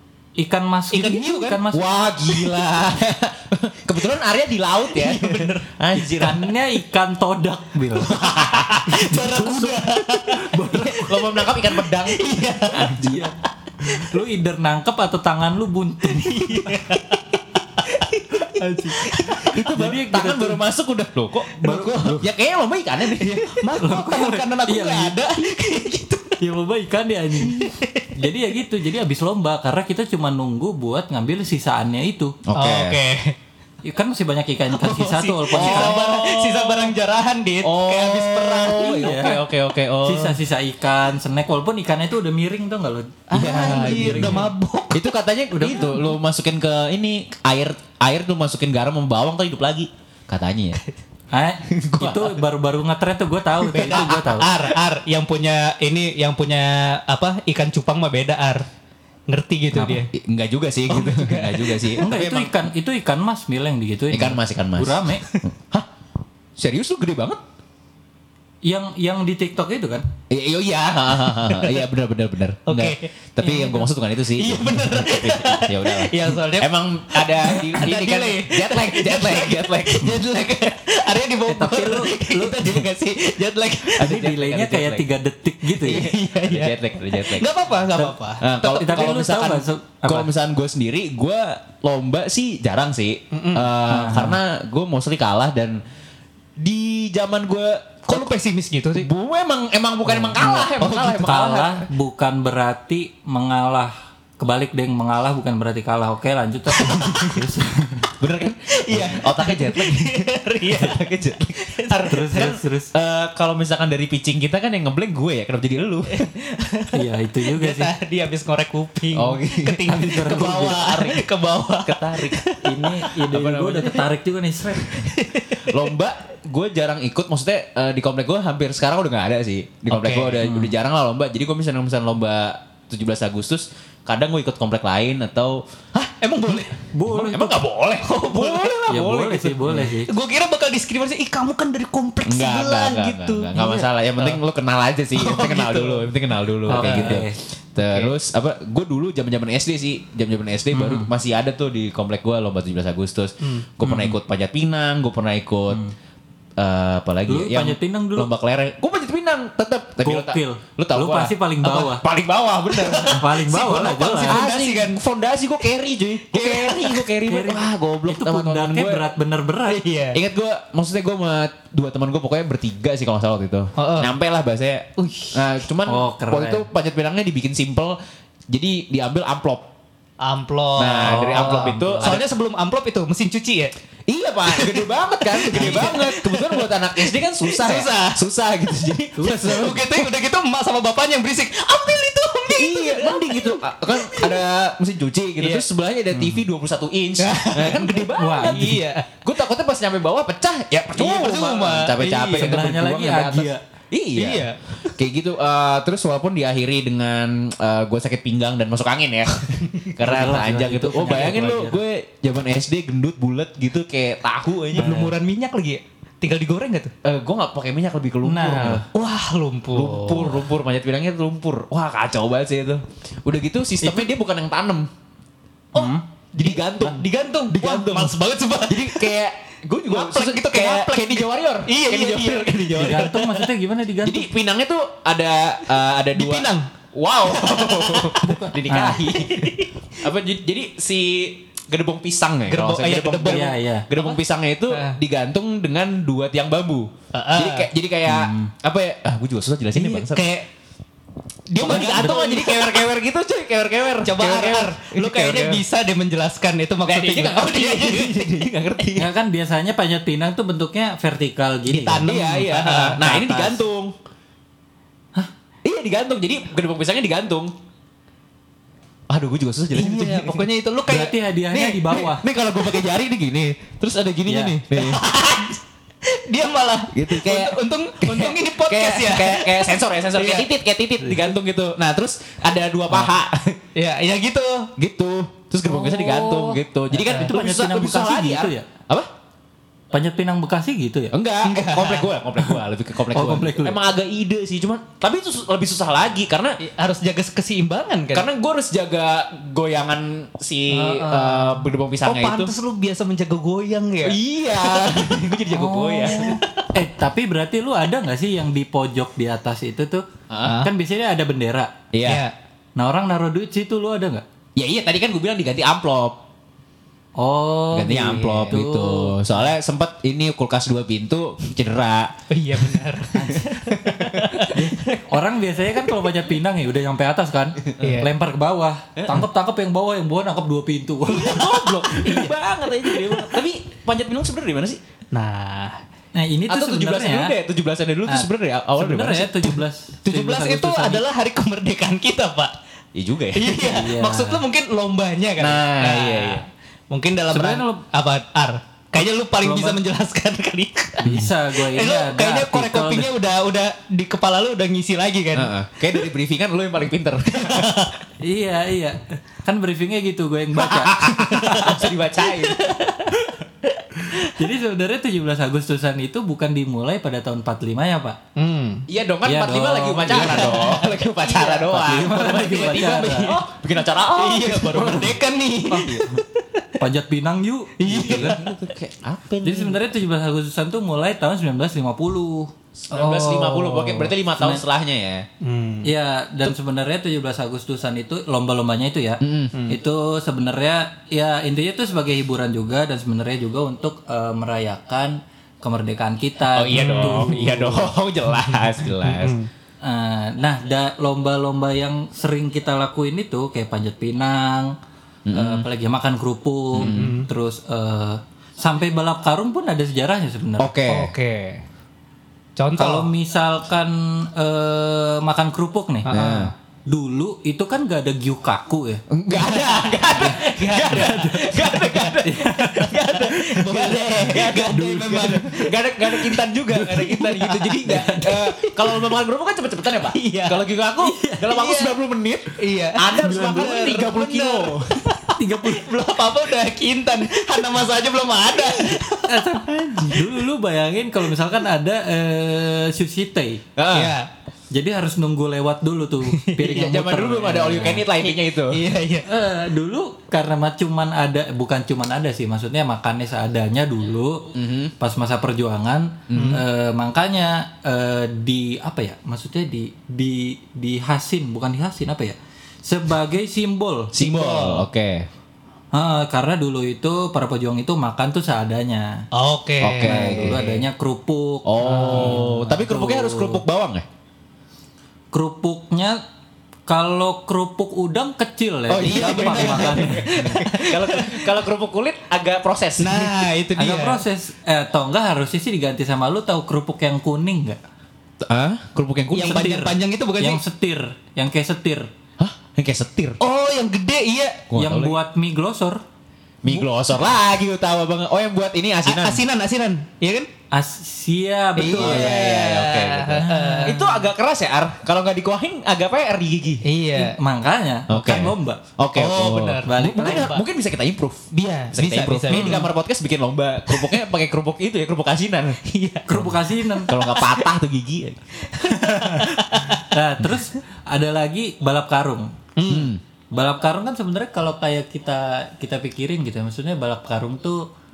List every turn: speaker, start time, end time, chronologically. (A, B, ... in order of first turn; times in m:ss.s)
0:00.4-0:02.0 A
0:00.9-0:06.5 B
0:01.0-0:01.4 C
0:04.9-0:05.7 C
0:05.9-0:08.2 A
0:08.1-0:09.6 B
0:08.1-0:10.5 C
0:08.9-0:09.7 A
0:10.3-0:11.3 A
0:10.7-0:13.3 B
0:11.6-0:13.0 C
0:13.0-0:16.9 A
0:16.2-0:17.3 C
0:17.8-0:19.4 C
0:18.4-0:20.6 A
0:19.4-0:23.7 B
0:21.6-0:22.3 C
0:21.6-0:22.1 A
0:23.2-0:26.4 C
0:23.8-0:25.2 A
0:26.4-0:32.4 A
0:27.4-0:28.1 C
0:32.5-0:33.0 B
0:32.6-0:33.3 C
0:33.8-0:35.9 A
0:34.7-0:39.4 C
0:35.5-0:37.0 B
0:37.6-0:40.4 B
0:38.8-0:39.4 A
0:40.0-0:44.5 A
0:43.3-0:45.0 C
0:43.4-0:50.8 B
0:45.5-0:46.0 A
0:51.3-0:54.5 A
0:51.7-0:52.4 B
0:53.7-0:58.7 C
0:59.3-1:00.1 C
0:59.7-1:02.6 B
1:00.9-1:02.0 C
1:02.0-1:05.2 A
1:04.1-1:05.9 B
1:06.6-1:07.4 B
1:08.6-1:10.1 A
1:10.3-1:20.2 B
1:11.5-1:11.8 C
1:12.7-1:24.2 C
1:21.5-1:22.6 A
1:23.9-1:26.1 A
1:24.0-1:25.1 B
1:25.8-1:28.4 C
1:25.8-1:27.5 B
1:27.9-1:30.3 A
1:28.4-1:35.8 B
1:33.3-1:33.7 C
1:33.9-1:34.4 A
1:36.6-1:38.4 B
1:38.1-1:39.1 C
1:38.9-1:41.8 B
1:40.1-1:40.4 A
1:40.4-1:41.5 C
1:41.2-1:48.1 A
1:46.9-1:47.5 C
1:48.2-1:56.3 B
1:48.8-1:51.0 C
1:51.6-1:52.5 C
1:52.1-1:52.9 A
1:56.1-1:57.0 C
1:56.9-1:57.9 A
1:57.6-2:03.0 C
1:59.1-2:01.3 B
1:59.9-2:00.7 A
2:01.8-2:02.4 B
2:02.6-2:05.0 A
2:03.2-2:04.0 B
2:04.9-2:05.8 C
2:05.6-2:15.6 B
2:09.9-2:10.5 C
2:10.4-2:10.7 A
2:16.0-2:16.8 C
2:16.9-2:17.6 A
2:17.1-2:19.9 B
2:18.0-2:19.0 C
2:18.9-2:20.1 A
2:20.0-2:23.9 C
2:22.2-2:35.8 B
2:25.1-2:26.1 C
2:26.7-2:27.2 C
2:26.7-2:27.4 A
2:27.8-2:28.1 C
2:30.7-2:31.1 A
2:33.8-2:34.2 A
2:36.6-2:49.0 B
2:37.3-2:38.3 A
2:40.0-2:42.0 A
2:42.8-2:43.2 C
2:43.1-2:44.4 A
2:44.2-2:45.0 C
2:46.3-2:47.1 C
2:47.3-2:49.8 A
2:49.7-2:50.2 C
2:50.1-2:58.0 B
2:53.8-2:54.1 C
2:55.0-2:55.4 C
2:55.9-2:56.7 A
2:58.5-2:59.6 B
3:00.2-3:03.7 C
3:00.8-3:02.2 B
3:01.0-3:02.2 A
3:04.1-3:10.1 B
3:04.5-3:08.2 C
3:05.5-3:05.9 A
3:09.2-3:09.6 A
3:09.2-3:14.4 C
3:12.6-3:35.2 B
3:15.4-3:15.7 C
3:16.1-3:16.4 A
3:17.2-3:19.1 C
3:18.2-3:18.7 A
3:21.0-3:22.6 C
3:22.0-3:23.6 A
3:24.2-3:24.8 C
3:30.0-3:31.8 A
3:34.7-3:36.9 C
3:37.0-3:38.8 B
3:38.2-3:38.9 A
3:38.9-3:40.5 C
3:39.7-3:44.9 B
3:43.8-3:44.1 C
3:45.7-3:46.0 A
3:45.8-3:49.1 C
3:46.4-3:48.1 B
3:48.7-3:53.3 B
3:49.9-3:53.3 C
3:52.8-3:54.3 A
3:54.0-4:10.2 B
3:56.1-3:56.7 C
3:57.4-3:59.8 C
4:02.5-4:04.2 C
4:03.2-4:03.9 A
4:04.7-4:05.0 C
4:07.1-4:07.7 C
4:08.1-4:08.5 A
4:09.8-4:10.5 C
4:11.5-4:12.9 C
4:11.6-4:15.6 B
4:14.0-4:18.3 C
4:16.8-4:19.1 B
4:19.0-4:22.1 A
4:21.7-4:23.2 C
4:22.0-4:24.0 B
4:23.0-4:23.6 A
4:25.6-4:27.5 B
4:29.1-4:30.5 B
4:29.7-4:31.9 C
4:30.9-4:32.2 A
4:31.9-4:35.1 B
4:34.3-4:34.6 A
4:34.7-4:40.5 C
4:36.9-4:43.6 B
4:41.0-4:41.3 A
4:43.8-4:44.7 C
4:44.8-4:49.1 B
4:45.6-4:47.3 C
4:47.0-4:48.7 A
4:49.9-4:51.1 A
4:51.1-4:56.6 B
4:51.4-4:52.1 C
4:53.1-4:53.8 A
4:56.6-4:58.3 C
4:58.1-5:02.5 B
5:00.7-5:05.3 C
5:04.0-5:06.4 B
5:05.5-5:11.7 A
5:06.1-5:06.7 C
5:10.3-5:10.6 B
5:10.4-5:10.7 C
5:11.9-5:12.2 B
5:12.0-5:12.3 C
5:12.8-5:14.2 A
5:14.6-5:16.2 B
5:17.2-5:19.4 A
5:17.7-5:24.4 B
5:18.1-5:18.6 C
5:22.3-5:24.9 C
5:23.1-5:23.6 A
5:24.5-5:32.2 A
5:27.7-5:27.9 B
5:27.8-5:28.1 C
5:29.0-5:29.3 B
5:31.1-5:34.8 B
5:32.0-5:32.4 C
5:32.9-5:33.3 C
5:35.1-5:35.8 C
5:36.1-5:37.4 A
5:36.5-5:39.6 B
5:38.1-5:41.0 A
5:40.0-5:42.5 C
5:43.0-5:43.6 B
5:43.4-5:55.5 C
5:43.6-5:44.4 A
5:45.4-5:46.4 B
5:47.3-5:47.8 A
5:49.4-5:49.8 A
5:51.0-5:51.3 B
5:51.0-5:53.1 A
5:55.3-5:57.7 B
5:57.4-5:58.0 C
5:58.2-6:01.7 A
6:00.6-6:02.9 B
6:01.2-6:03.1 C
6:04.0-6:08.2 A
6:08.4-6:08.9 C
6:08.9-6:16.0 B
6:09.2-6:10.8 A
6:10.1-6:13.2 C
6:11.7-6:13.4 A
6:14.1-6:16.4 C
6:16.8-6:18.4 A
6:17.8-6:18.5 C
6:17.9-6:19.8 B
6:19.4-6:22.5 A
6:22.8-6:25.3 B
6:22.9-6:24.1 C
6:24.4-6:24.6 A
6:25.4-6:25.9 C
6:25.8-6:37.8 A
6:29.2-6:29.6 B
6:36.6-6:39.5 B
6:36.7-6:37.5 C
6:39.0-6:39.5 C
6:39.8-6:44.7 A
6:45.3-6:45.7 B
6:45.3-6:50.7 A
6:46.7-6:47.2 B
6:46.8-6:47.3 C
6:50.6-6:51.2 B
6:50.9-6:51.6 C
6:52.6-6:53.1 C
6:52.8-6:56.1 A
6:56.1-6:56.5 C
6:56.1-6:56.5 B
6:56.9-6:59.0 A
6:59.1-7:15.0 B
6:59.3-7:02.2 C
7:00.1-7:03.0 A
7:02.8-7:09.1 C
7:10.0-7:10.6 C
7:11.0-7:11.5 A
7:11.5-7:12.0 C
7:12.6-7:20.2 C
7:13.2-7:13.6 A
7:15.4-7:16.0 A
7:18.7-7:23.6 A
7:23.8-7:24.2 B
7:23.9-7:24.3 C
7:24.7-7:28.1 A
7:26.3-7:27.0 C
7:26.7-7:28.8 B
7:28.2-7:29.3 C
7:29.2-7:44.2 A
7:34.5-7:34.9 B
7:36.3-7:36.6 B
7:36.3-7:36.6 C
7:44.1-7:45.3 B
7:44.2-7:44.9 C
7:45.9-7:49.2 A
7:49.3-7:50.6 C
7:49.8-7:50.9 B
7:50.0-7:53.6 A
7:51.6-7:54.0 B
7:51.8-7:52.5 C
7:55.3-7:56.2 A
7:56.9-8:00.6 A
7:58.9-8:03.5 B
7:59.0-8:01.5 C
8:03.0-8:04.2 C
8:03.8-8:07.8 A
8:08.4-8:09.7 B
8:09.3-8:10.6 C
8:09.4-8:12.1 A
8:12.4-8:13.4 B
8:13.4-8:14.6 C
8:14.7-8:15.2 B
8:14.8-8:16.0 A
8:16.6-8:19.4 B
8:19.1-8:20.5 C
8:20.7-8:22.4 A
8:21.8-8:24.3 C
8:21.9-8:26.8 B
8:23.5-8:23.8 A
8:26.8-8:27.4 C
8:27.1-8:28.8 A
8:28.1-8:35.8 B
8:29.2-8:30.6 C
8:29.9-8:30.4 A
8:31.5-8:32.9 C
8:33.9-8:34.2 C
8:35.8-8:36.4 C
8:36.3-8:37.1 A
8:36.3-8:38.4 B
8:36.9-8:37.6 C
8:38.6-8:40.0 C
8:38.8-8:42.6 A
8:42.8-8:43.1 C
8:42.9-8:43.2 B
8:43.5-8:47.9 A